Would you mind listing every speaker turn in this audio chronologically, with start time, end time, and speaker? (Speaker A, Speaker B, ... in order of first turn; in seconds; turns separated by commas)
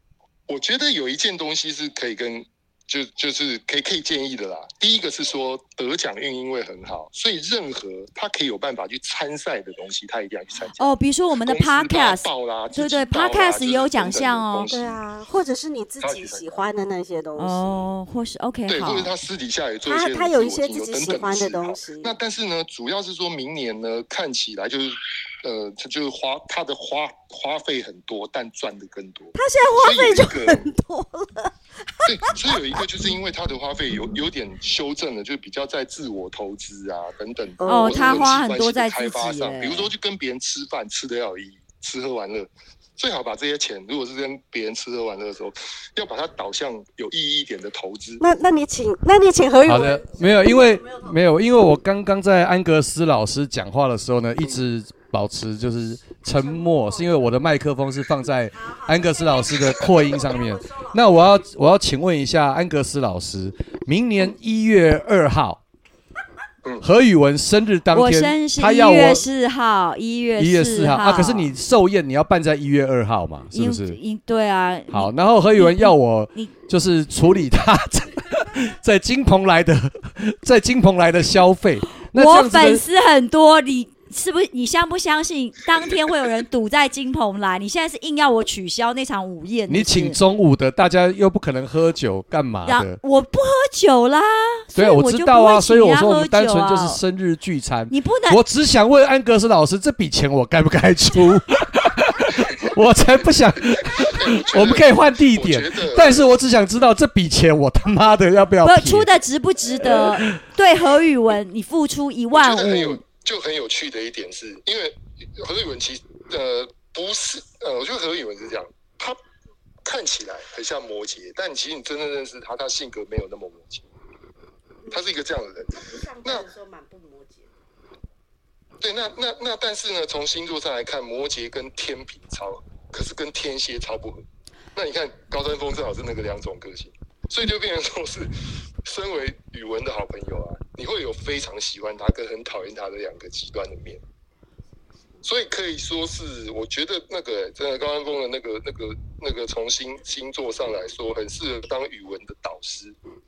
Speaker A: 0.5-15.0, Speaker B: 10.8-14.7, Speaker C: 14.7-17.8, Speaker A: 16.0-16.6, Speaker B: 17.4-19.1, Speaker A: 18.7-30.6, Speaker C: 19.9-22.1, Speaker C: 29.4-31.5, Speaker A: 32.0-48.2, Speaker C: 32.1-32.6, Speaker C: 37.6-38.3, Speaker B: 37.7-39.9, Speaker C: 48.2-51.1, Speaker D: 49.6-65.6, Speaker C: 56.3-57.3, Speaker C: 58.5-61.4, Speaker D: 66.8-69.2, Speaker B: 67.9-71.5, Speaker D: 70.4-74.0, Speaker B: 73.5-76.5, Speaker D: 74.9-82.8, Speaker B: 82.1-90.2, Speaker D: 89.7-93.0, Speaker B: 92.6-97.0, Speaker D: 94.7-109.1, Speaker B: 97.9-98.4, Speaker A: 103.9-106.3, Speaker B: 108.6-113.0, Speaker D: 109.8-110.4, Speaker A: 112.3-119.2, Speaker A: 119.8-123.8, Speaker A: 124.9-126.5, Speaker C: 125.7-127.5, Speaker A: 128.8-134.2, Speaker A: 134.7-138.3, Speaker A: 138.8-144.0, Speaker A: 145.2-152.9